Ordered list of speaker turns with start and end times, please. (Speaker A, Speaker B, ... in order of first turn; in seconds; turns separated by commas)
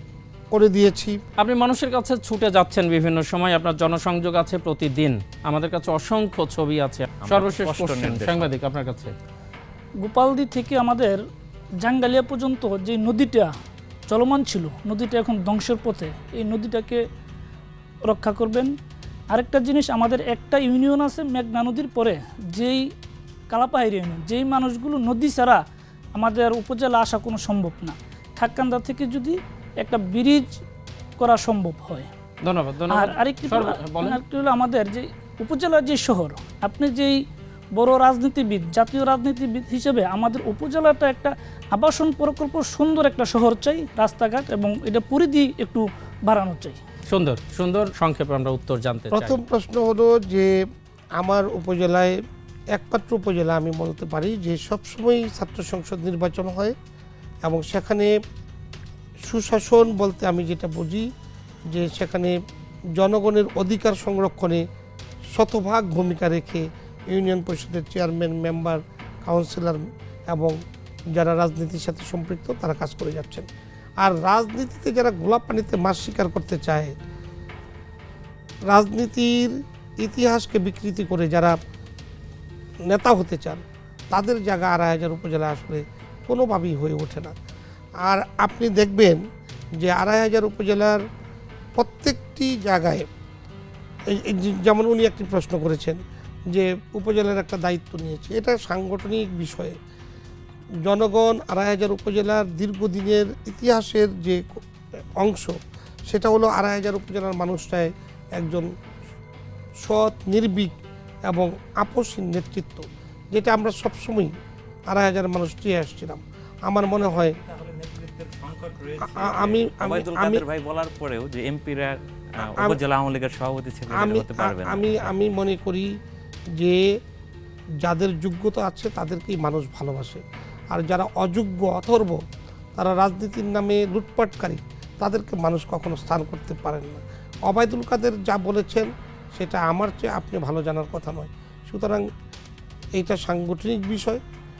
Speaker A: 0.5-1.2, Speaker B: 1.4-9.1, Speaker C: 7.2-8.5, Speaker D: 10.0-11.2, Speaker D: 11.8-13.5, Speaker D: 14.1-17.0, Speaker D: 18.1-18.7, Speaker D: 19.3-22.9, Speaker D: 23.5-25.6, Speaker D: 26.1-30.6, Speaker D: 31.2-32.1, Speaker B: 32.4-34.2, Speaker D: 32.9-37.2, Speaker D: 37.7-46.8, Speaker B: 47.1-49.4, Speaker A: 49.1-50.5, Speaker A: 51.2-52.2, Speaker A: 52.7-56.7, Speaker A: 57.4-58.1, Speaker A: 59.2-61.1, Speaker A: 61.7-62.4, Speaker A: 63.0-64.6, Speaker A: 65.3-70.5, Speaker A: 71.1-73.5, Speaker A: 74.0-76.9, Speaker A: 78.7-81.6, Speaker A: 82.9-87.3, Speaker A: 88.0-89.2, Speaker A: 89.8-91.0, Speaker A: 91.8-93.0, Speaker A: 94.1-99.7, Speaker A: 100.8-104.6, Speaker A: 105.2-105.5, Speaker A: 106.1-108.7, Speaker A: 109.8-110.8, Speaker A: 111.3-114.3, Speaker A: 114.9-117.3, Speaker C: 116.8-125.1, Speaker A: 119.0-120.4, Speaker A: 123.9-125.9, Speaker A: 126.6-126.8, Speaker A: 127.8-132.2, Speaker A: 132.8-142.0, Speaker A: 142.9-144.2